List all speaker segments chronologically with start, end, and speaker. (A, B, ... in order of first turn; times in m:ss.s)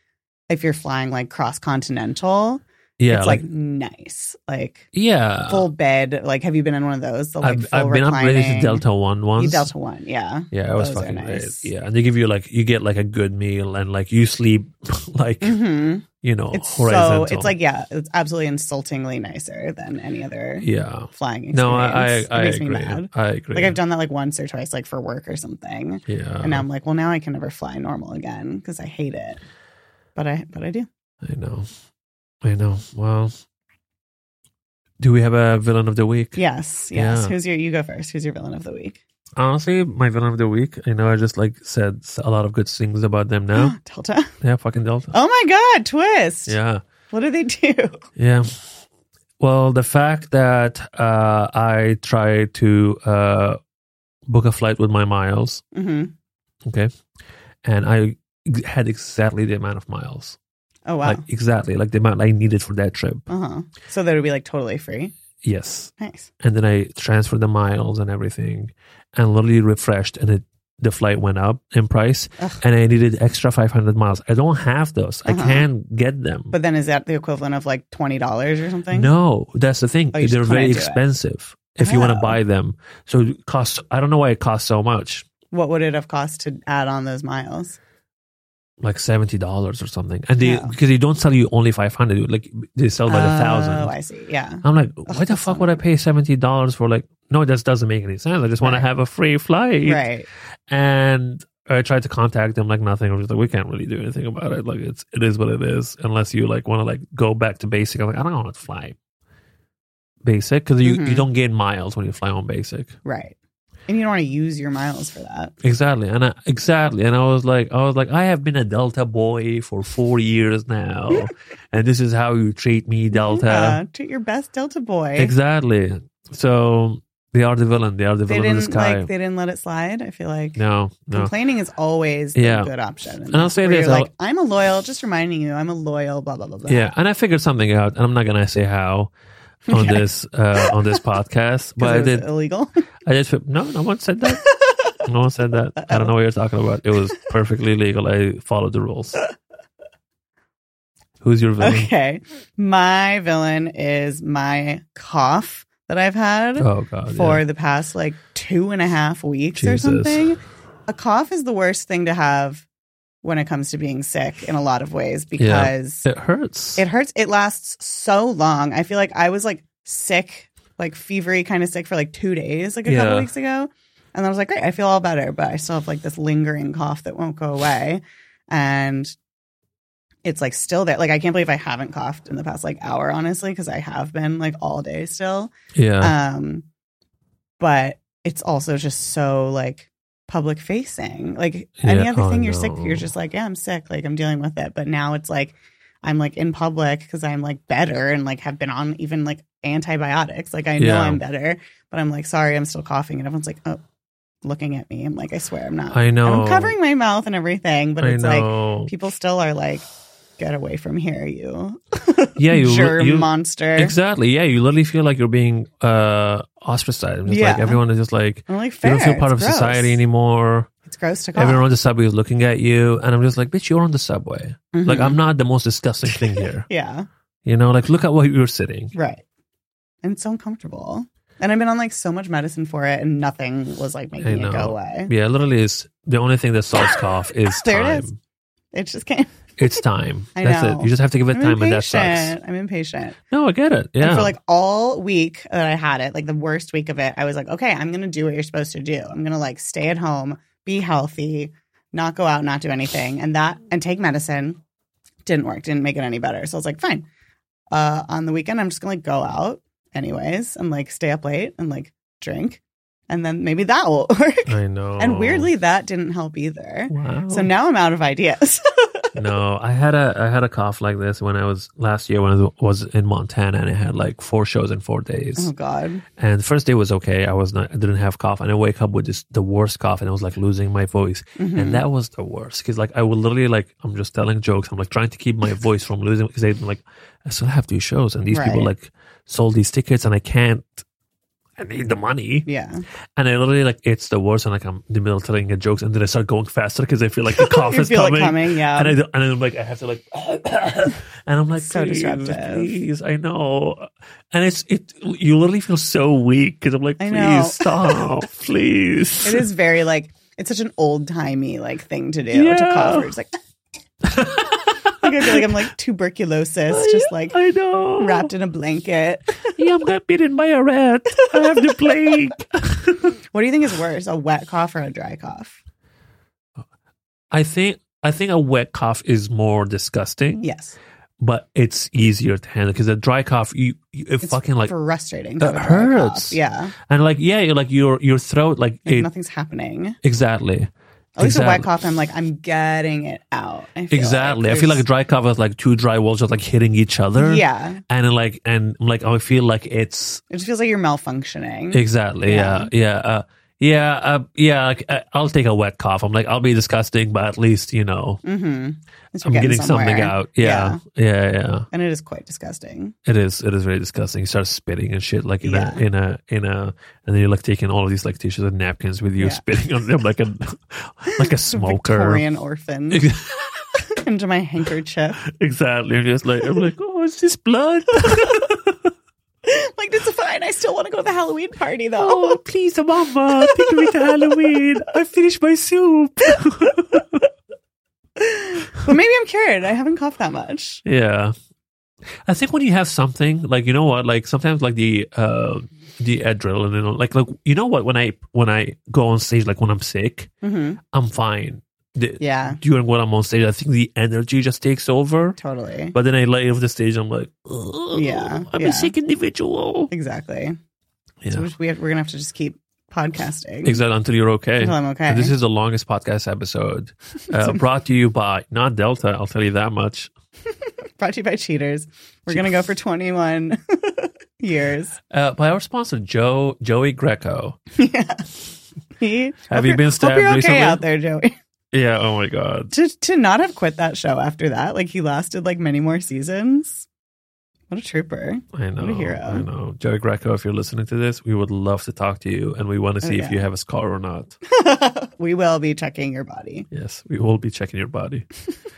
0:00.5-0:04.9 A
0:03.0-0:03.4 B
0:04.9-0:05.7 B
0:05.5-0:08.8 A
0:07.4-0:09.7 B
0:09.4-0:11.7 A
0:10.5-0:15.6 B
0:15.4-0:29.4 A
0:16.2-0:17.5 B
0:20.6-0:23.8 B
0:26.1-0:26.6 B
0:30.2-0:30.9 A
0:31.2-0:31.7 B
0:32.4-0:33.3 B
0:35.0-0:36.4 B
0:36.4-0:39.0 A
0:36.9-0:37.3 B
0:39.4-0:43.8 B
0:43.6-0:44.3 A
0:44.4-0:45.1 B
0:45.1-0:46.6 A
0:46.5-0:46.8 B
0:47.1-0:48.1 A
0:48.2-0:48.8 B
0:49.4-0:53.6 B
0:54.3-0:55.6 B
0:55.7-0:56.1 A
0:56.6-0:56.9 B
0:57.6-1:00.4 B
1:00.9-1:01.2 A
1:01.0-1:03.3 B
1:03.3-1:05.1 A
1:05.4-1:16.5 B
1:06.0-1:06.3 A
1:15.2-1:15.7 A
1:16.5-1:19.1 A
1:18.9-1:25.2 B
1:20.1-1:21.0 A
1:21.8-1:22.4 A
1:25.5-1:27.8 A
1:28.8-1:33.9 B
1:30.4-1:30.7 A
1:33.1-1:35.8 A
1:34.6-1:40.0 B
1:38.6-1:38.8 A
1:39.8-1:40.3 A
1:40.7-1:49.0 B
1:50.2-1:53.0 B
1:50.8-1:51.2 A
1:53.0-1:53.4 A
1:53.9-1:55.5 A
1:55.6-2:03.8 B
2:03.1-2:05.3 A
2:05.2-2:09.1 B
2:08.3-2:10.6 A
2:10.6-2:11.3 B
2:11.1-2:16.9 A
2:12.4-2:12.7 B
2:13.3-2:14.1 B
2:16.7-2:19.1 B
2:19.7-2:20.0 A
2:19.7-2:22.3 B
2:20.6-2:21.0 A
2:21.8-2:22.8 A
2:23.0-2:24.5 B
2:24.4-2:24.9 A
2:25.0-2:29.2 B
2:25.8-2:26.1 A
2:31.2-2:31.9 B
2:31.6-2:42.6 A
2:36.6-2:37.4 B
2:39.5-2:40.2 B
2:43.2-2:46.0 A
2:45.4-2:46.8 B
2:46.8-2:59.2 A
2:52.8-2:53.3 B
3:00.2-3:06.6 A
3:05.7-3:06.1 B
3:07.6-3:23.8 A
3:11.8-3:13.1 B
3:20.8-3:21.2 B
3:24.4-3:29.9 A
3:25.9-3:26.8 B
3:28.0-3:28.9 B
3:30.4-3:33.9 A
3:32.4-3:40.7 B
3:37.3-3:37.8 A
3:38.5-3:40.0 A
3:40.8-3:41.6 A
3:41.3-3:46.7 B
3:44.7-3:45.2 A
3:46.1-3:47.0 A
3:47.4-3:48.9 B
3:48.9-3:49.2 A
3:50.0-3:55.1 A
3:54.2-3:58.2 B
3:57.5-3:58.1 A
3:58.7-3:59.8 A
3:59.6-4:02.4 B
4:00.3-4:03.2 A
4:03.3-4:04.3 B
4:04.0-4:14.6 A
4:15.2-4:17.1 A
4:17.7-4:29.1 A
4:24.5-4:25.5 B
4:26.9-4:27.5 B
4:29.1-4:35.5 B
4:35.4-4:36.0 A
4:36.2-4:50.8 B
4:41.4-4:41.8 A
4:48.3-4:48.7 A
4:51.6-4:52.5 B
4:52.4-4:52.8 A
4:53.2-5:09.4 B
4:57.3-4:59.0 A
5:01.6-5:02.7 A
5:07.0-5:08.0 A
5:09.2-5:13.4 A
5:12.3-5:13.1 B
5:14.0-5:15.7 B
5:14.9-5:17.4 A
5:16.7-5:18.3 B
5:18.0-5:19.6 A
5:19.5-5:23.1 B
5:21.1-5:22.2 A
5:23.3-5:25.6 A
5:27.3-5:30.4 B
5:30.4-5:30.8 A
5:31.2-5:34.7 B
5:34.2-5:36.7 A
5:35.4-5:39.1 B
5:38.8-5:40.0 A
5:40.0-5:41.7 B
5:41.2-5:44.8 A
5:43.9-5:50.2 B
5:47.2-5:47.8 A
5:50.3-5:52.7 A
5:51.7-5:58.2 B
5:58.2-6:00.8 A
5:59.2-6:01.7 B
6:01.7-6:03.0 A
6:03.0-6:12.2 B
6:05.4-6:05.8 A
6:09.2-6:09.4 A
6:11.1-6:13.1 A
6:12.9-6:13.6 B
6:13.9-6:15.2 A
6:15.2-6:18.9 B
6:17.9-6:18.5 A
6:19.4-6:22.4 A
6:22.0-6:27.2 B
6:23.3-6:24.7 A
6:26.3-6:26.8 A
6:28.2-6:30.8 A
6:30.8-6:31.3 B
6:32.2-6:40.3 B
6:40.4-6:40.8 A
6:40.9-6:45.4 B
6:42.2-6:42.6 A
6:45.4-6:45.9 A
6:45.9-6:49.9 B
6:47.9-6:48.9 A
6:49.9-6:50.6 A
6:51.3-6:53.8 A
6:53.6-7:00.1 B
6:54.6-6:55.3 A
6:57.3-6:57.6 A
7:01.0-7:05.0 A
7:05.1-7:07.6 B
7:07.7-7:08.3 A
7:09.0-7:11.3 A
7:09.5-7:10.8 B
7:11.7-7:12.7 B
7:12.7-7:16.9 A
7:17.7-7:19.4 A
7:18.5-7:24.4 B
7:23.0-7:23.4 A
7:24.5-7:26.7 A
7:26.7-7:28.3 B